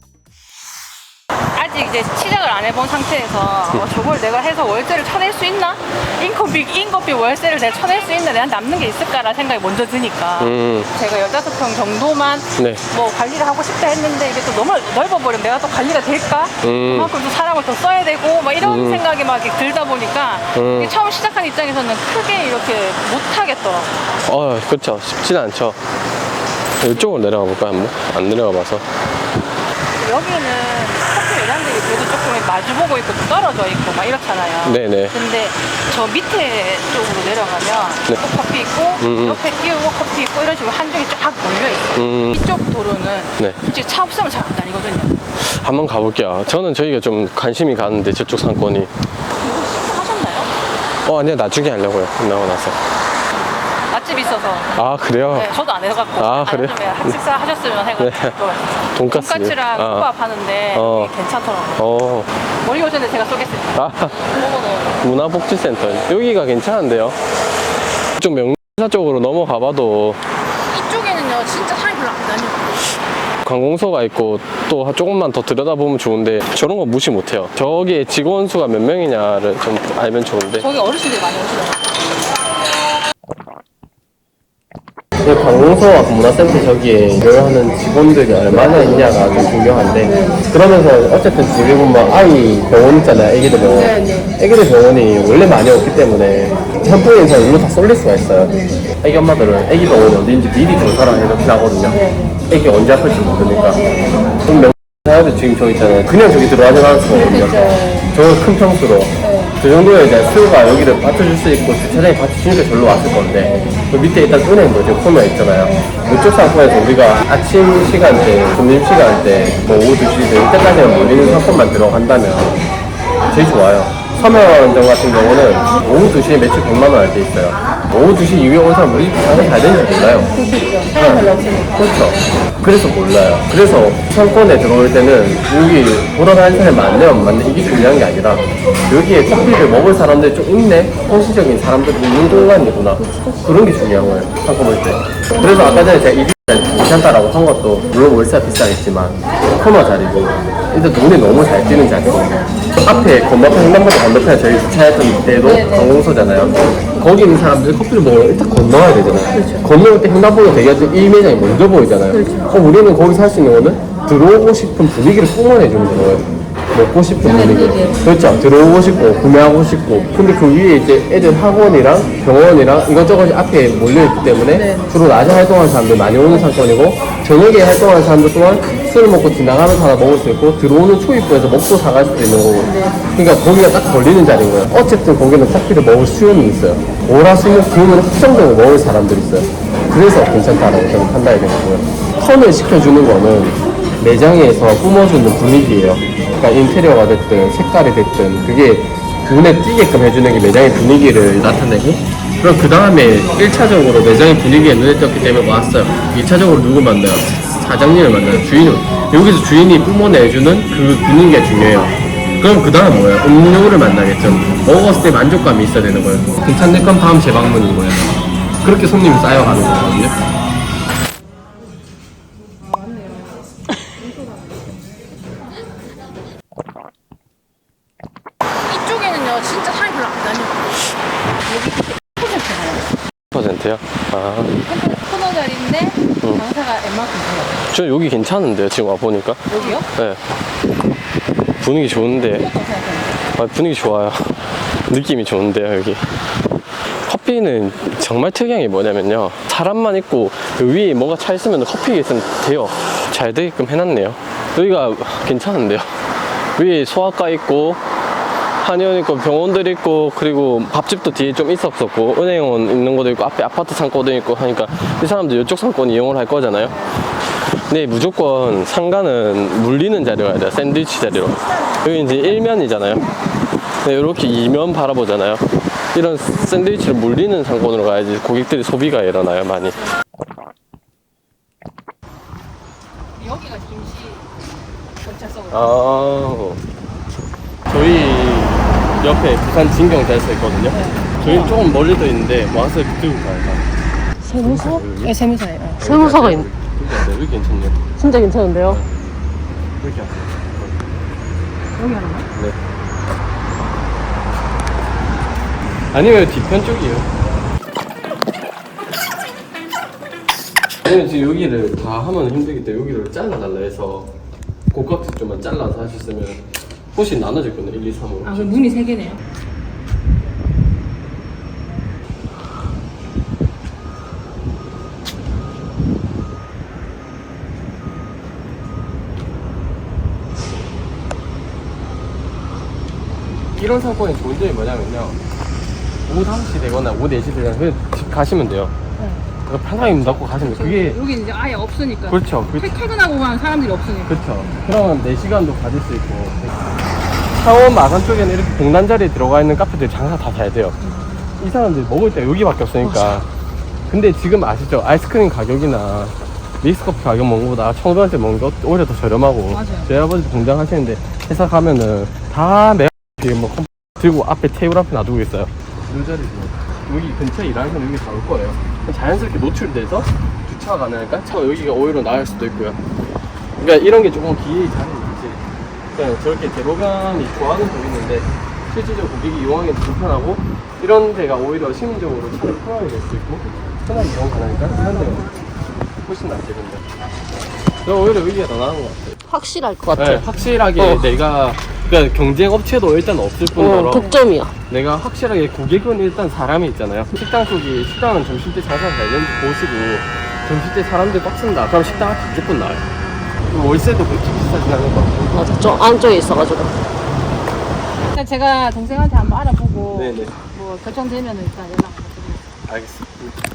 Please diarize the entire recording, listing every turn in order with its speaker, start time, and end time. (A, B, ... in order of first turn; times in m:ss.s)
0:01.5-0:23.9 A
0:10.4-0:10.9 B
0:12.6-0:12.8 B
0:16.6-0:17.1 B
0:18.6-0:19.0 B
0:20.5-0:20.9 B
0:24.2-0:25.8 B
0:26.8-0:28.8 B
0:30.0-0:45.2 A
0:34.6-0:35.2 B
0:39.0-0:39.4 B
0:41.9-0:42.4 B
0:45.4-0:48.9 B
0:49.4-0:50.5 A
0:51.0-0:52.8 B
0:53.9-0:54.7 A
0:54.7-0:55.5 B
0:55.3-1:01.8 A
0:56.2-0:57.2 B
0:58.0-0:58.4 B
0:58.9-1:00.1 B
1:00.7-1:01.1 B
1:01.8-1:02.3 B
1:02.6-1:05.0 A
1:03.7-1:04.4 B
1:05.0-1:07.2 B
1:08.2-1:10.2 B
1:10.7-1:12.8 A
1:13.4-1:20.7 B
1:20.6-1:21.8 A
1:25.2-2:02.6 B
2:03.3-3:40.2 B
3:48.7-3:50.8 A
3:51.4-3:52.9 A
3:53.3-3:54.5 B
3:54.6-3:57.6 A
3:57.7-4:00.2 B
3:59.5-3:59.9 A
4:01.6-4:02.5 B
4:01.9-4:03.2 A
4:03.3-4:06.1 B
4:07.0-4:16.0 B
4:16.5-4:17.8 B
4:18.6-4:26.8 B
4:27.5-4:33.1 B
4:33.8-4:39.8 B
4:43.2-4:44.3 A
4:45.0-4:45.8 A
4:45.5-4:46.6 B
4:47.7-4:53.7 B
4:50.7-4:51.5 A
4:54.3-4:54.6 C
4:54.4-4:55.2 B
4:55.0-4:55.6 A
4:55.7-4:57.9 B
4:55.8-4:56.5 C
4:58.0-4:58.8 C
4:58.6-4:59.2 B
4:59.8-5:00.8 B
5:01.8-5:02.3 A
5:05.9-5:07.1 B
5:10.8-5:14.1 B
5:14.7-5:18.6 B
5:18.2-5:19.2 A
5:33.5-5:35.2 B
5:36.1-5:38.7 B
5:39.0-5:39.2 A
5:39.4-5:41.0 B
5:40.4-5:44.2 A
5:42.1-5:42.7 B
5:44.0-5:46.5 B
5:47.3-5:50.8 B
5:50.8-5:51.3 A
5:51.4-5:53.3 B
5:53.9-6:12.8 B
5:59.5-5:59.9 A
6:13.6-6:25.3 B
6:26.0-6:26.8 B
6:27.8-6:29.2 B
6:29.2-6:31.0 C
6:29.9-6:42.8 B
6:33.6-6:34.5 C
6:43.4-6:45.5 B
6:45.3-6:46.7 C
6:48.0-6:52.4 A
6:49.9-6:50.4 B
6:52.7-6:53.3 B